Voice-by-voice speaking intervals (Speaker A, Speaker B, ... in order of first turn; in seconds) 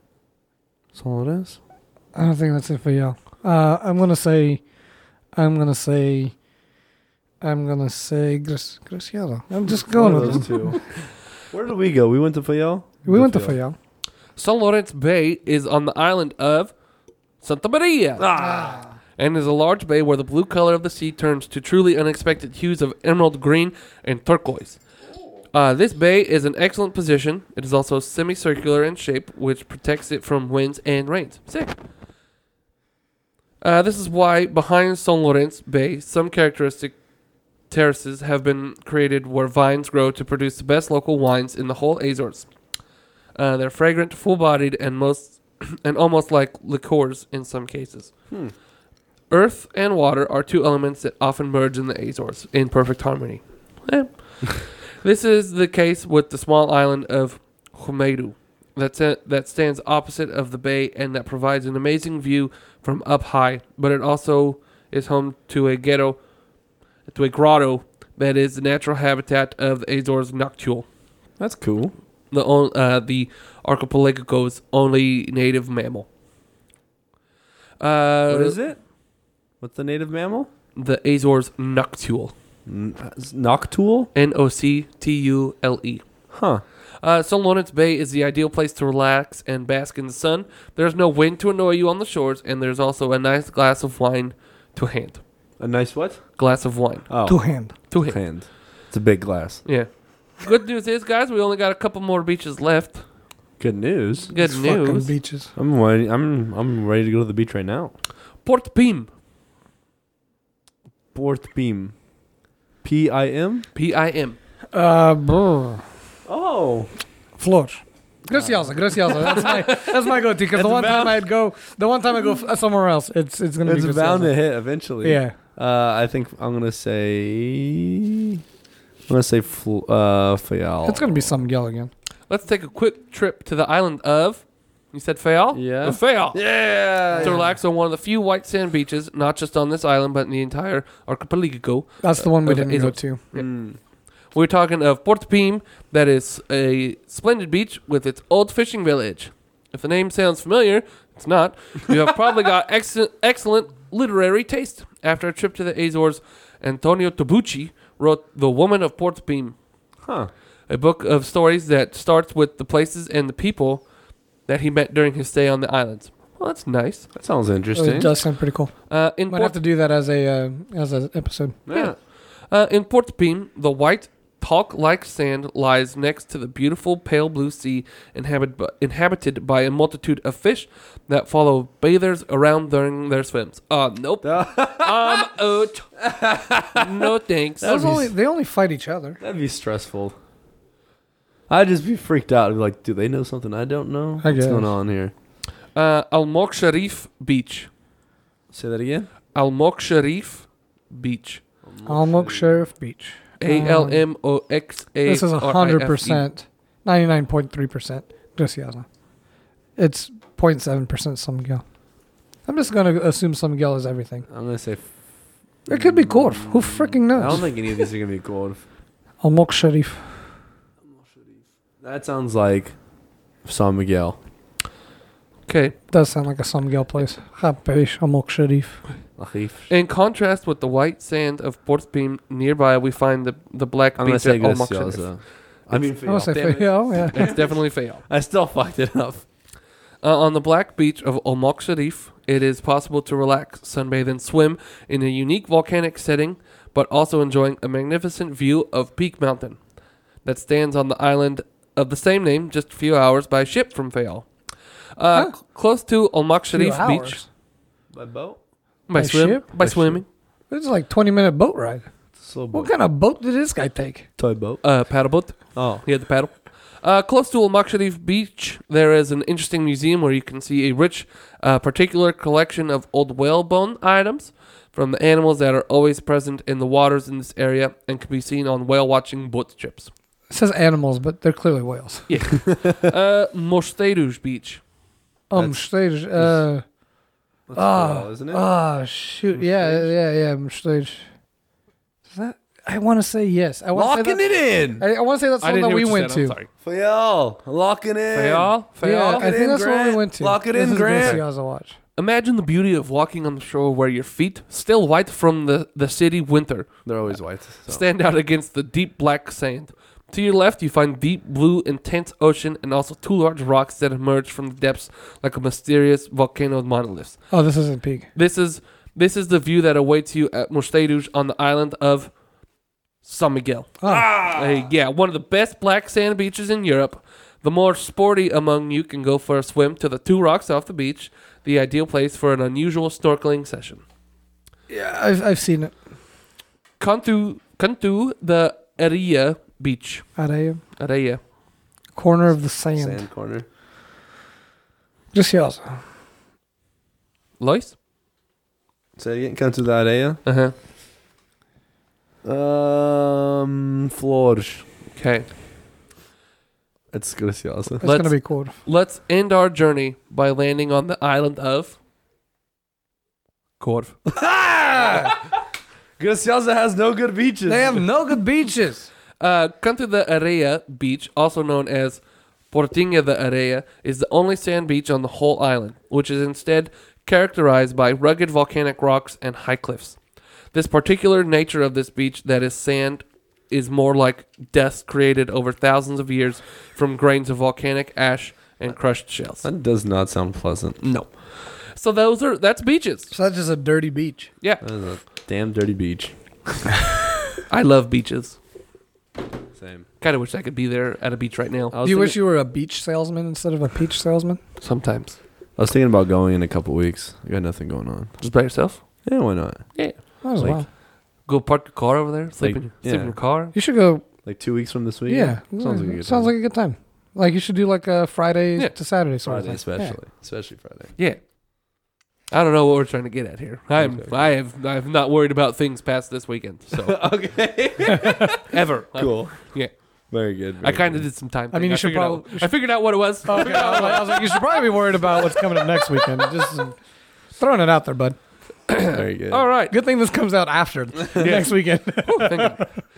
Speaker A: 0.9-1.6, 9.7-10.9, 11.5-13.6, 18.2-18.8, 71.4-71.9, 78.3-78.8, 79.6-80.5, 82.7-84.1, 86.3-86.6, 95.6-96.2, 97.1-97.4, 98.0-99.6, 103.6-104.3, 105.5-107.9, 111.1-111.9, 112.8-113.6, 116.2-116.9, 118.3-119.7, 120.5-121.2, 123.6-128.4, 129.1-131.2, 135.5-137.4, 143.3-143.8, 160.0-160.3, 167.1-168.2, 171.7-171.9, 184.2-185.3, 186.0-188.1, 189.2-190.1, 191.5-195.1, 198.5-199.1, 201.6-202.5, 214.3-214.8, 215.7-218.6, 220.9-222.8, 223.4-224.2, 229.2-229.7, 234.0-239.2, 257.9-258.4, 259.6-260.0, 262.2-262.7, 264.2-264.6, 265.5-265.8, 282.5-282.7, 285.4-286.4, 287.5-288.4, 289.3-289.9, 293.7-294.8, 296.6-301.2, 306.9-307.8, 323.9-324.7, 342.8-343.4, 349.0-350.2, 352.2-354.6, 356.9-357.8, 364.1-365.4, 366.0-367.8, 389.4-390.8, 394.6-396.7, 399.5-399.9, 401.7-402.1, 405.6-408.1, 409.0-410.6, 412.4-413.1, 414.2-416.3, 419.2-420.9, 423.8-424.2, 426.7-428.4, 428.9-429.5, 430.1-431.1, 438.9-439.5
Speaker B: 2.1-4.6, 5.3-6.3, 7.4-10.8, 13.1-13.8, 18.4-18.9, 97.2-97.7, 104.3-105.5, 114.7-115.8, 117.4-124.4, 125.0-125.3, 130.8-131.9, 137.1-137.5, 142.0-143.2, 167.7-171.6, 187.6-189.2, 194.2-194.7, 201.8-204.0, 205.1-208.8, 209.8-211.6, 212.4-214.3, 215.7-217.6, 219.2-220.0, 225.9-228.8, 236.1-237.2, 256.5-257.2, 259.0-259.4, 260.5-261.9, 262.5-264.1, 280.3-282.1, 285.3-286.6, 287.6-291.1, 292.1-296.4, 298.8-301.8, 317.3-318.1, 323.8-324.1, 334.7-335.7, 340.2-340.6, 341.9-343.0, 345.1-345.8, 357.8-358.5, 367.5-368.9, 393.1-394.3, 401.8-404.4, 410.2-410.7, 413.5-414.0, 415.1-420.0, 427.9-428.3, 431.5-432.5, 433.2-436.8, 437.4-438.2, 439.7-442.6
Speaker C: 14.3-16.7, 17.4-18.3, 19.2-24.8, 25.5-31.8, 33.6-37.0, 37.7-42.5, 43.3-48.1, 49.3-66.2, 67.1-70.9, 72.3-76.1, 77.8-78.6, 80.8-82.3, 84.1-86.0, 87.0-95.2, 96.4-97.1, 97.9-98.2, 99.6-103.0, 104.3-105.1, 108.4-109.1, 113.7-114.4, 132.3-136.4, 137.2-143.5, 144.3-159.6, 160.7-163.8, 164.4-167.1, 168.9-169.6, 171.7-185.9, 186.7-187.7, 195.7-197.7, 199.3-201.4, 203.4-206.2, 225.5-225.8, 229.7-235.0, 237.1-238.0, 240.0-249.6, 250.2-254.3, 255.0-257.2, 258.9-260.0, 264.6-279.9, 282.1-284.6, 295.4-296.5, 298.1-299.2, 302.0-306.7, 307.7-317.3, 318.1-322.1, 323.0-333.8, 336.8-340.1, 340.8-341.2, 347.4-347.7, 350.2-350.5, 354.9-355.3, 357.8-361.8, 363.6-363.9, 369.2-380.0, 380.5-389.4, 390.8-391.1, 391.7-393.1, 397.5-398.4, 400.0-401.8, 404.6-405.2, 408.2-408.8, 409.8-410.0, 411.2-413.5, 422.3-427.0, 428.4-429.7, 430.6-434.6, 438.7-439.7, 441.2-442.7